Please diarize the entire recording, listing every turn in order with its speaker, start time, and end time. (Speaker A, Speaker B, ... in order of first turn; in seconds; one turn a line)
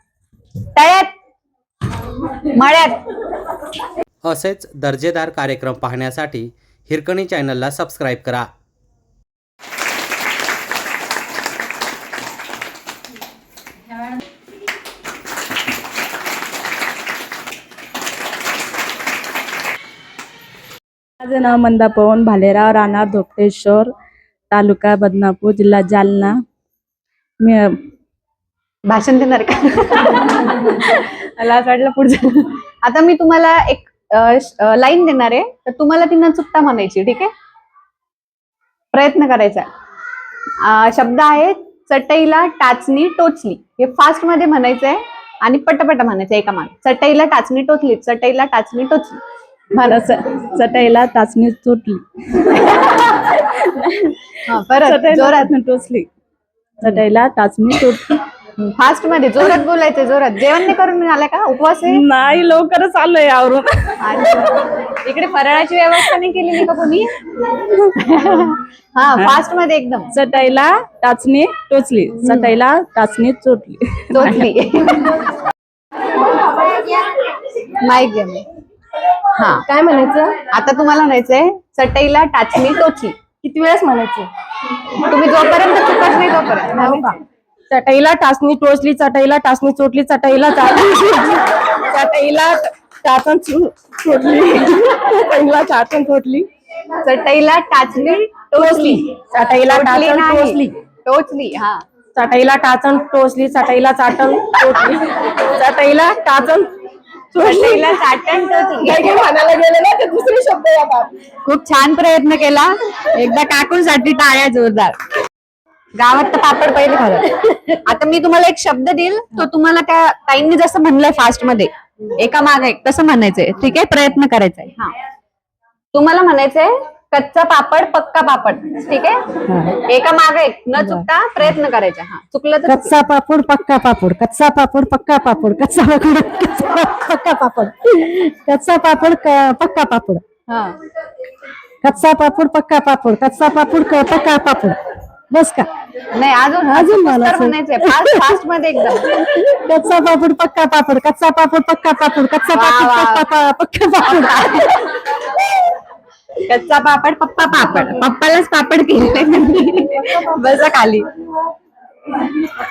Speaker A: 0.8-1.1
Speaker A: 2.5-3.0
Speaker B: 4.2-8.5
Speaker C: 21.2-23.9
Speaker C: 24.5-26.4
Speaker C: 27.4-27.8
Speaker A: 28.9-37.3
Speaker A: 38.9-39.7
Speaker A: 40.6-49.2
Speaker A: 49.7-50.0
Speaker C: 49.8-56.1
Speaker A: 54.5-55.5
Speaker C: 56.8-58.2
Speaker A: 58.6-62.0
Speaker C: 61.9-63.9
Speaker A: 64.0-67.1
Speaker A: 67.9-70.1
Speaker C: 70.1-74.4
Speaker A: 72.2-72.5
Speaker A: 74.1-75.2
Speaker A: 77.7-78.4
Speaker A: 79.3-79.6
Speaker C: 79.7-80.3
Speaker A: 80.5-83.2
Speaker C: 83.4-84.3
Speaker A: 85.0-87.1
Speaker C: 86.8-87.1
Speaker C: 87.7-92.4
Speaker A: 91.9-92.6
Speaker C: 93.0-96.5
Speaker A: 97.0-99.1
Speaker C: 98.6-100.6
Speaker A: 99.6-101.8
Speaker C: 102.2-106.7
Speaker C: 107.3-107.8
Speaker A: 107.4-109.1
Speaker C: 108.8-111.1
Speaker A: 111.4-114.9
Speaker A: 116.0-124.9
Speaker A: 125.9-129.2
Speaker A: 129.8-133.0
Speaker D: 132.7-140.2
Speaker A: 140.5-140.7
Speaker D: 141.8-144.8
Speaker D: 145.3-145.7
Speaker A: 146.1-149.2
Speaker D: 146.7-148.3
Speaker D: 149.1-154.4
Speaker A: 152.5-153.3
Speaker A: 154.0-155.0
Speaker A: 156.5-161.1